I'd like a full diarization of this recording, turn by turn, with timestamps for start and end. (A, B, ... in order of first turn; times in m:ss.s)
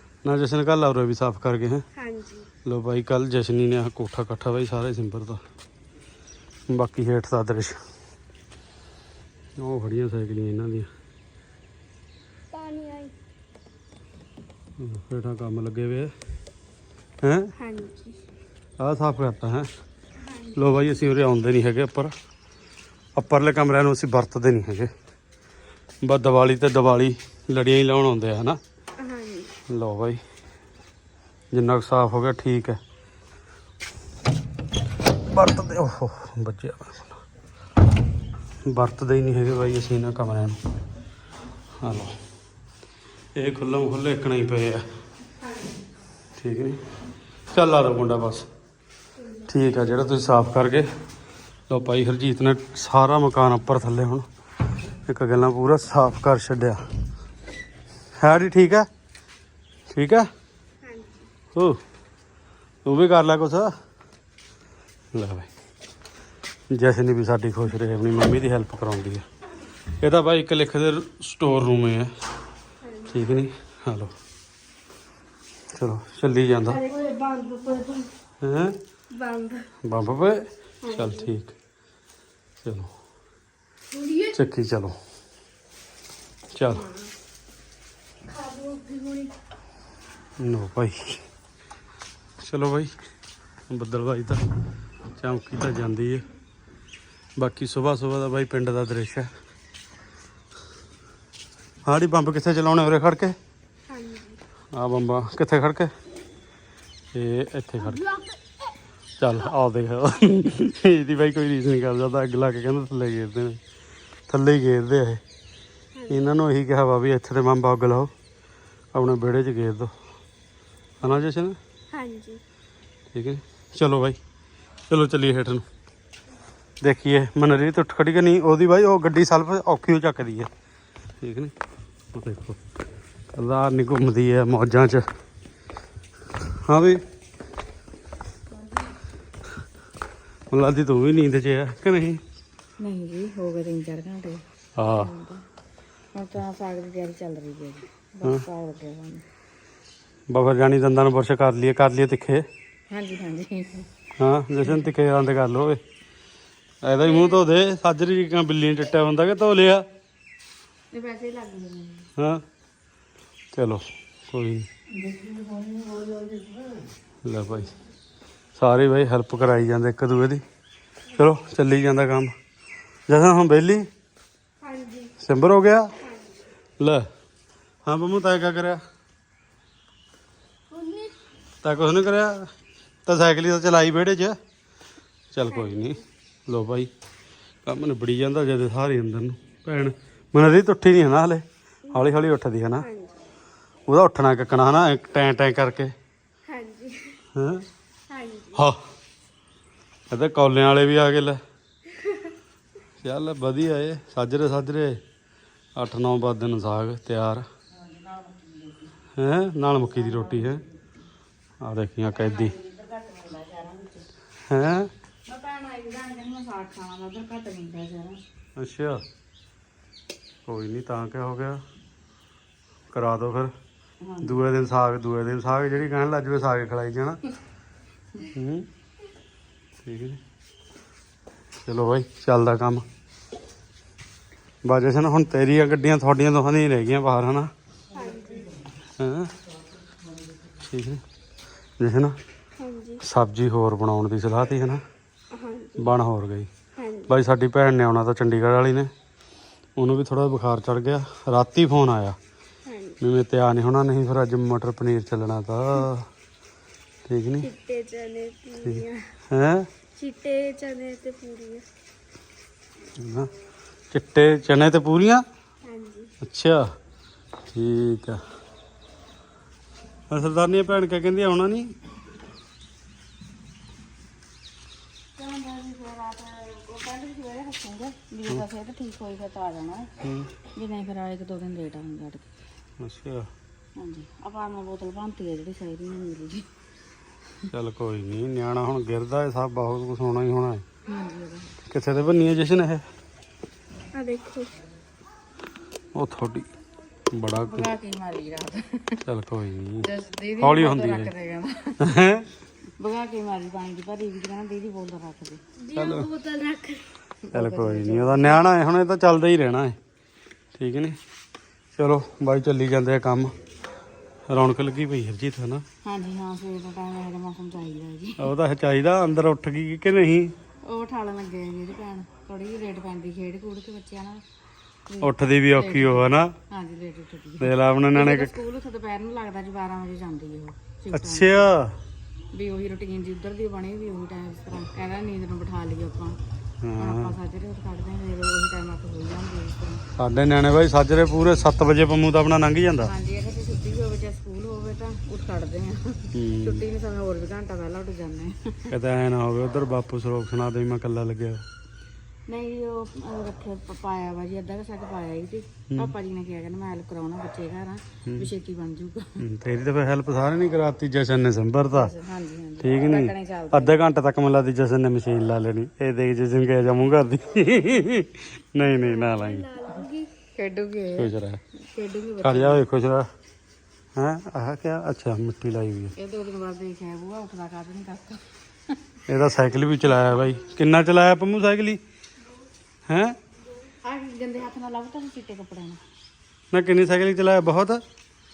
0:00.2-0:01.8 A
0:02.0-0:02.5 B
0:02.6-0:05.4 A
0:06.7-0:07.8 A
0:09.6-0:10.9 A
0:12.5-0:13.1 B
0:14.8-0:16.1 A
0:17.2-0:17.5 A
0:17.6-0:18.2 B
0:18.8-0:19.7 A
0:20.2-0:20.6 B
0:20.6-0:22.1 A
0:23.2-0:24.9 A
0:26.0-0:28.6 A
0:29.0-0:29.5 B
0:29.7-0:30.2 A
0:31.5-0:32.8 A
0:35.2-0:37.2 A
0:38.6-0:40.6 A
0:41.8-0:42.2 A
0:43.4-0:44.8 A
0:46.4-0:46.8 A
0:47.5-0:48.5 A
0:49.2-0:49.5 B
0:49.5-0:50.9 A
0:51.7-0:54.2 A
0:55.1-0:56.8 A
0:58.2-0:58.9 A
0:59.9-1:00.3 A
1:00.8-1:01.3 B
1:02.8-1:03.7 A
1:05.2-1:05.5 A
1:06.7-1:09.2 A
1:10.0-1:12.1 A
1:12.8-1:13.4 B
1:13.1-1:14.1 A
1:15.7-1:16.8 A
1:16.7-1:18.1 B
1:18.4-1:18.8 A
1:19.1-1:19.7 B
1:19.8-1:21.6 A
1:20.8-1:21.3 B
1:22.6-1:22.9 A
1:23.9-1:24.4 B
1:24.3-1:25.0 A
1:26.5-1:26.9 A
1:26.7-1:27.1 B
1:28.2-1:29.3 B
1:30.4-1:31.2 A
1:32.4-1:32.9 A
1:33.7-1:34.4 A
1:35.2-1:36.2 A
1:37.4-1:39.3 A
1:41.9-1:43.4 A
1:43.9-1:44.4 B
1:44.7-1:45.9 A
1:47.1-1:48.1 A
1:47.8-1:48.4 B
1:49.2-1:53.6 A
1:54.3-1:55.2 A
1:56.0-1:56.2 B
1:56.1-1:58.1 A
1:58.9-1:59.9 A
2:01.0-2:01.6 A
2:01.9-2:02.4 B
2:03.1-2:04.2 A
2:04.9-2:05.6 A
2:06.8-2:10.5 A
2:11.2-2:11.5 A
2:12.1-2:12.6 A
2:13.3-2:15.0 A
2:16.6-2:17.0 A
2:20.5-2:22.2 A
2:22.8-2:24.4 C
2:24.8-2:25.1 A
2:25.0-2:25.4 C
2:26.1-2:29.2 C
2:30.3-2:32.4 A
2:32.9-2:33.9 C
2:34.2-2:35.8 A
2:36.8-2:39.8 A
2:37.0-2:37.4 B
2:40.9-2:42.1 C
2:42.2-2:42.4 A
2:43.5-2:44.7 A
2:45.0-2:46.7 C
2:47.2-2:47.7 A
2:48.6-2:50.4 A
2:51.2-2:52.3 A
2:53.1-2:53.9 A
2:54.6-2:55.1 B
2:55.2-2:55.9 A
2:56.0-2:56.4 B
2:56.8-2:57.0 A
2:57.8-2:58.8 A
3:00.7-3:01.2 B
3:01.6-3:02.5 A
3:03.1-3:04.4 A
3:05.3-3:06.9 A
3:05.5-3:06.0 B
3:07.7-3:12.9 A
3:11.9-3:12.2 B
3:12.8-3:13.2 B
3:13.9-3:15.9 A
3:16.5-3:17.2 B
3:17.4-3:17.6 A
3:18.1-3:18.6 B
3:20.1-3:21.4 A
3:22.0-3:22.3 B
3:23.0-3:25.0 A
3:25.8-3:27.4 A
3:27.7-3:28.9 C
3:29.2-3:30.6 A
3:29.8-3:30.7 C
3:31.6-3:32.5 A
3:32.1-3:34.1 C
3:34.5-3:34.9 A
3:35.3-3:38.2 C
3:38.6-3:39.0 A
3:40.5-3:41.6 A
3:42.9-3:43.5 A
3:44.0-3:44.4 C
3:44.2-3:47.2 A
3:48.2-3:48.7 A
3:49.8-3:50.2 A
3:51.6-3:52.8 A
3:54.6-3:57.5 A
3:57.9-3:58.5 B
3:59.0-3:59.3 A
4:00.6-4:01.0 A
4:01.8-4:02.1 A
4:02.6-4:03.0 B
4:03.0-4:04.8 A
4:05.3-4:05.9 B
4:05.8-4:06.5 A
4:06.8-4:07.2 B
4:07.1-4:08.9 A
4:09.8-4:12.2 A
4:12.7-4:13.0 B
4:13.0-4:16.1 A
4:17.1-4:17.5 A
4:17.4-4:19.1 B
4:18.6-4:19.7 A
4:20.0-4:21.6 B
4:23.0-4:23.3 A
4:23.9-4:25.2 A
4:25.6-4:26.1 B
4:26.2-4:26.7 A
4:27.5-4:28.2 A
4:30.1-4:31.7 A
4:35.2-4:39.9 C
4:40.0-4:40.3 A
4:40.6-4:42.3 C
4:42.8-4:43.3 A
4:43.8-4:46.5 C
4:47.5-4:50.6 A
4:50.9-4:51.5 C
4:51.7-4:52.8 A
4:53.9-4:54.5 B
4:56.0-4:56.5 A
4:57.1-4:57.7 A
4:57.4-4:59.0 C
4:59.0-5:01.1 A
4:59.8-5:01.8 C
5:01.8-5:02.3 A
5:02.8-5:05.4 C
5:05.6-5:06.9 B
5:05.8-5:06.1 A
5:07.2-5:08.4 C
5:07.3-5:09.8 A
5:10.6-5:11.0 A
5:11.8-5:13.3 A
5:14.3-5:15.6 A
5:15.8-5:18.2 C
5:18.2-5:20.3 A
5:20.7-5:24.2 C
5:24.9-5:31.5 C
5:25.0-5:26.3 A
5:27.4-5:28.4 A
5:30.9-5:31.8 A
5:32.3-5:36.2 C
5:36.6-5:37.2 A
5:36.8-5:39.8 C
5:40.0-5:42.9 A
5:42.8-5:48.7 C
5:46.1-5:46.6 A
5:48.7-5:51.4 A
5:52.3-5:59.1 C
5:58.0-5:58.3 A
5:59.2-6:01.9 A
6:01.7-6:03.8 C
6:02.6-6:09.5 A
6:08.6-6:10.1 B
6:10.4-6:12.6 C
6:11.0-6:11.4 A
6:12.2-6:13.1 A
6:14.0-6:15.9 A
6:16.0-6:18.8 C
6:19.1-6:21.8 A
6:22.9-6:23.2 A
6:23.8-6:25.8 C
6:26.5-6:27.8 A